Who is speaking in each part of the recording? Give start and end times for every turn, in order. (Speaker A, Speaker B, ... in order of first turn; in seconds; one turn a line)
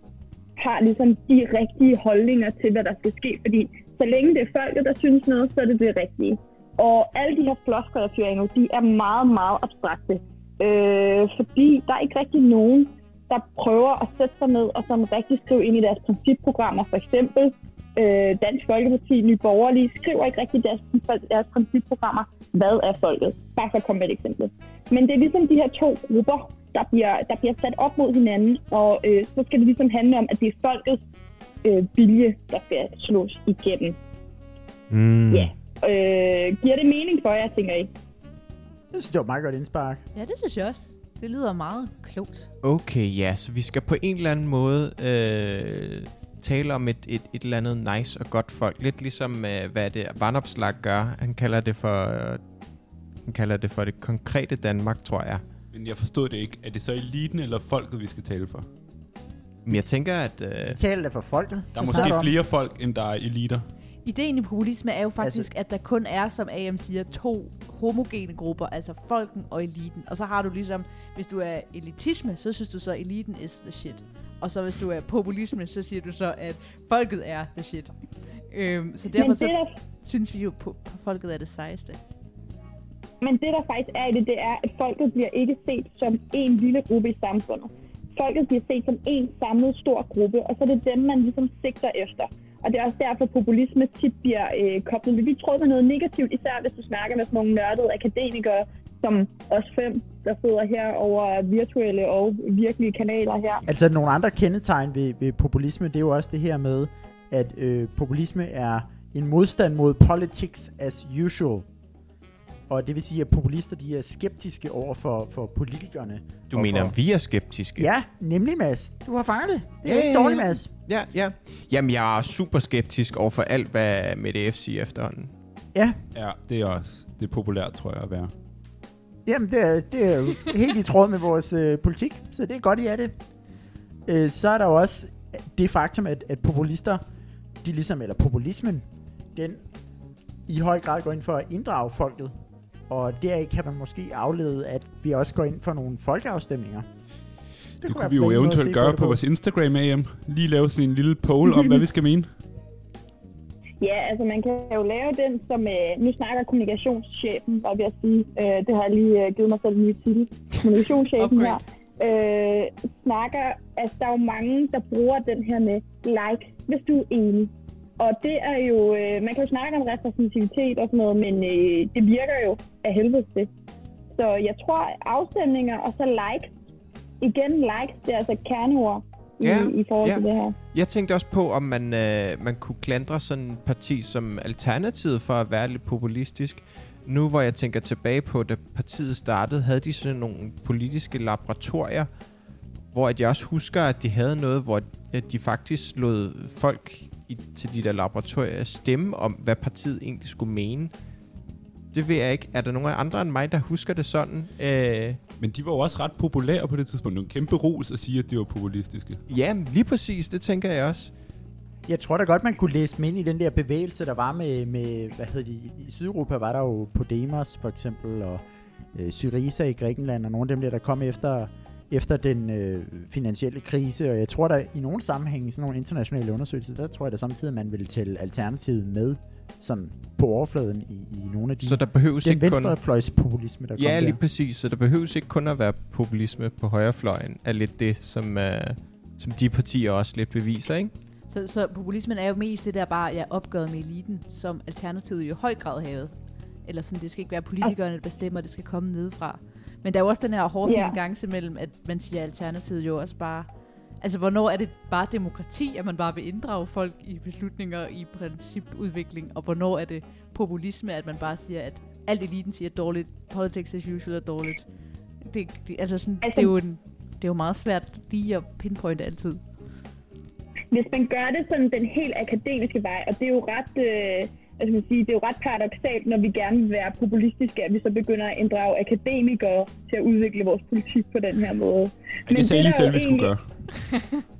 Speaker A: 0.6-31.0
Speaker A: 31.6-34.0
Speaker B: 34.9-35.5
Speaker A: 35.3-37.9
Speaker C: 38.9-40.0
Speaker D: 40.1-42.5
Speaker B: 42.6-52.4
Speaker B: 53.2-55.4
Speaker E: 55.7-58.7
Speaker B: 59.6-60.8
Speaker C: 60.6-62.3
Speaker E: 61.7-63.7
Speaker D: 64.0-82.0
Speaker C: 65.2-65.5
Speaker A: 79.2-79.7
Speaker A: 83.2-103.6
Speaker C: 103.7-111.7
Speaker C: 112.7-117.0
Speaker B: 116.5-117.9
Speaker C: 117.8-120.7
Speaker B: 119.8-125.3
Speaker E: 126.1-128.3
Speaker C: 129.2-133.1
Speaker C: 134.1-137.0
Speaker C: 137.6-139.6
Speaker C: 140.5-142.3
Speaker C: 142.9-146.8
Speaker C: 147.8-149.2
Speaker E: 147.8-152.3
Speaker A: 153.8-173.5
Speaker D: 161.2-161.6
Speaker A: 174.1-176.5
Speaker A: 177.2-180.6
Speaker B: 179.4-192.1
Speaker B: 192.9-200.9
Speaker B: 201.9-205.2
Speaker E: 205.4-209.2
Speaker B: 209.3-211.1
Speaker C: 211.9-218.4
Speaker C: 218.9-234.2
Speaker B: 231.6-232.8
Speaker B: 233.8-240.9
Speaker D: 241.3-246.1
Speaker D: 246.6-253.5
Speaker A: 250.6-251.0
Speaker D: 254.0-264.7
Speaker D: 265.2-269.4
Speaker A: 266.2-266.5
Speaker A: 270.7-283.3
Speaker E: 282.2-283.8